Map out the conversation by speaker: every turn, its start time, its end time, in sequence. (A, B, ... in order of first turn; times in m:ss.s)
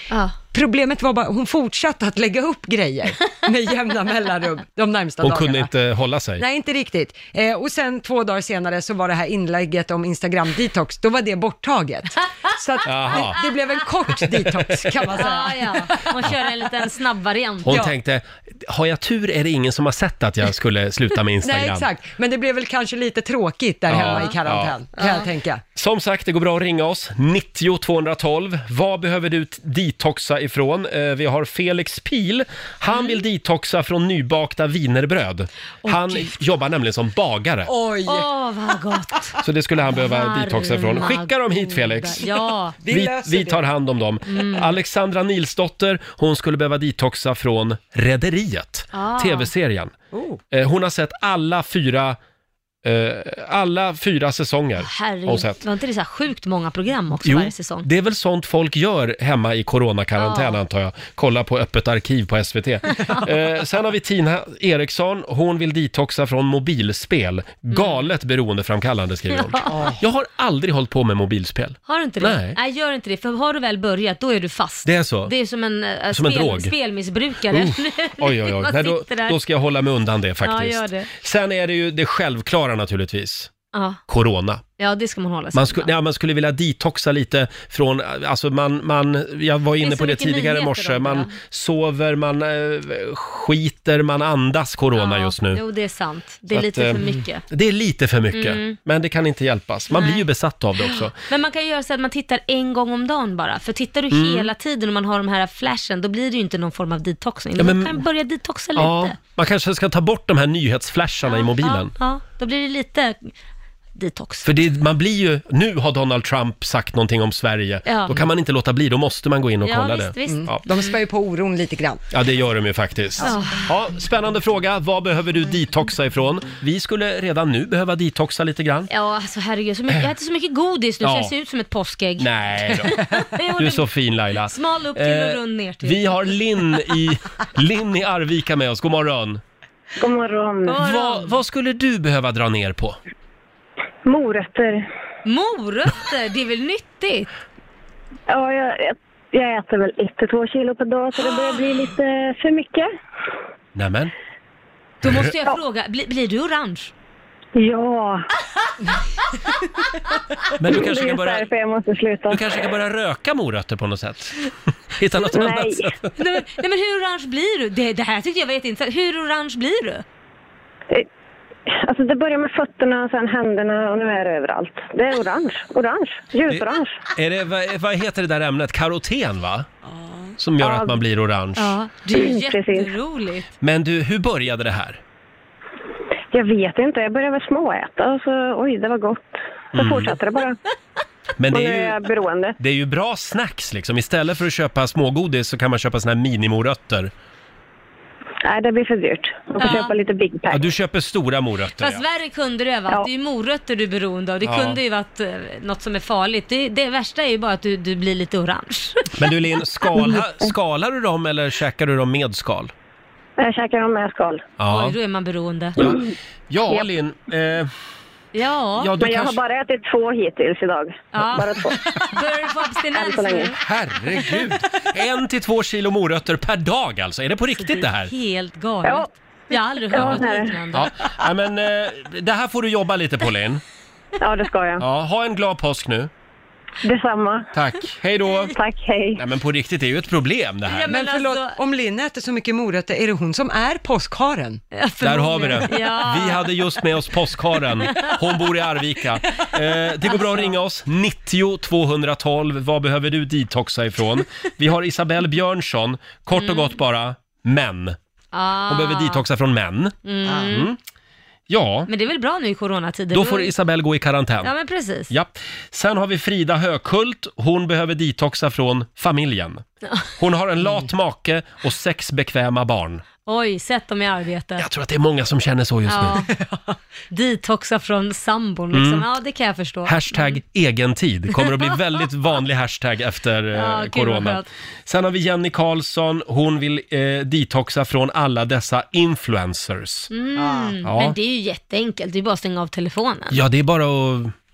0:00.5-0:05.7 A
0:05.2-0:06.4 B
0:06.4-0:16.4 A
0:12.8-0:13.4 B
0:14.2-0:15.0 B
0:15.2-0:17.8 C
0:17.6-0:21.9 B
0:21.4-0:25.6 A
0:23.9-0:24.7 B
0:24.0-0:24.3 C
0:25.0-0:25.3 C
0:25.8-0:37.7 B
0:35.9-0:36.2 C
0:37.6-0:38.3 A
0:38.0-0:42.8 C
0:39.4-0:42.2 B
0:42.8-0:43.6 A
0:42.9-0:49.9 B
0:44.3-0:44.7 C
0:48.9-0:49.5 C
0:50.1-0:50.4 A
0:50.5-0:52.2 B
0:52.8-0:55.6 B
0:54.8-0:57.9 C
0:57.2-1:12.6 B
1:00.2-1:00.6 C
1:02.9-1:03.3 C
1:07.7-1:08.1 C
1:09.4-1:09.9 C
1:09.7-1:10.0 A
1:11.9-1:19.4 C
1:14.8-1:15.3 B
1:16.1-1:16.7 B
1:17.5-1:23.5 B
1:20.4-1:21.1 C
1:23.7-1:24.0 C
1:24.1-1:24.6 B
1:24.8-1:25.9 C
1:25.5-1:35.6 B
1:29.8-1:31.3 C
1:35.0-1:37.4 C
1:36.5-1:41.1 B
1:38.3-1:38.8 C
1:39.9-1:40.2 C
1:40.8-1:49.2 C
1:44.1-1:44.5 B
1:47.6-1:48.0 B
1:48.8-1:51.9 B
1:51.2-1:53.3 C
1:53.9-1:54.5 C
1:54.4-2:00.6 B
1:57.8-1:58.1 C
1:59.6-2:00.9 C
2:00.2-2:02.0 A
2:02.1-2:08.9 B
2:03.2-2:03.6 C
2:08.9-2:16.2 C
2:11.0-2:11.3 B
2:12.2-2:13.0 B
2:13.6-2:19.4 B
2:20.0-2:20.8 D
2:20.6-2:21.4 C
2:20.8-2:23.0 B
2:24.0-2:24.8 D
2:25.2-2:27.3 C
2:28.3-2:32.9 D
2:33.7-2:34.1 B
2:35.0-2:36.9 C
2:37.6-2:38.2 D
2:40.6-2:41.5 B
2:40.6-2:42.4 D
2:42.3-2:46.2 B
2:45.3-2:45.9 D
2:46.2-2:50.0 C
2:51.7-2:57.0 D
2:56.5-2:59.7 B
2:59.9-3:00.2 A
3:00.4-3:01.8 B
3:00.6-3:00.9 D
3:01.6-3:03.5 C
3:02.1-3:02.9 D
3:03.6-3:05.0 B
3:06.3-3:10.6 D
3:09.7-3:10.1 B
3:11.4-3:12.0 B
3:11.5-3:12.6 D
3:12.6-3:17.1 B
3:18.4-3:20.6 D
3:19.6-3:19.9 C
3:20.5-3:22.0 B
3:21.8-3:29.2 C
3:24.4-3:24.8 B
3:29.2-3:32.7 B
3:30.0-3:30.5 D
3:33.4-3:34.4 D
3:34.6-3:34.9 B
3:34.7-3:35.8 C
3:35.8-3:37.7 B
3:38.3-3:38.9 C
3:38.8-3:39.4 B
3:39.0-3:41.8 D
3:41.1-3:43.6 C
3:43.0-3:43.5 D
3:43.6-3:48.1 B
3:47.6-3:50.9 C
3:49.9-3:50.6 D
3:49.9-3:53.6 B
3:54.2-3:54.8 D
3:54.8-3:56.1 B
3:56.8-3:57.5 D
3:57.5-3:58.5 B
3:58.5-3:59.2 D
3:59.2-4:00.9 B
4:00.6-4:01.6 C
4:00.9-4:04.6 A
4:04.7-4:06.7 C
4:05.0-4:18.0 B
4:07.8-4:08.4 C
4:10.0-4:10.5 C
4:16.4-4:16.8 C
4:18.3-4:19.2 C
4:18.7-4:20.8 B
4:20.0-4:20.7 C
4:21.5-4:21.9 B
4:21.9-4:23.5 C
4:23.1-4:24.5 B
4:24.4-4:25.1 C
4:25.1-4:29.6 B
4:29.8-4:30.1 C
4:30.2-4:33.0 B
4:33.2-4:34.6 C
4:34.6-4:36.2 B
4:35.9-4:36.3 C
4:37.1-4:40.4 C
4:38.7-4:39.0 B
4:39.8-4:50.1 B
4:43.5-4:44.4 C
4:50.1-4:53.4 C
4:50.8-4:51.1 B
4:53.3-4:54.3 B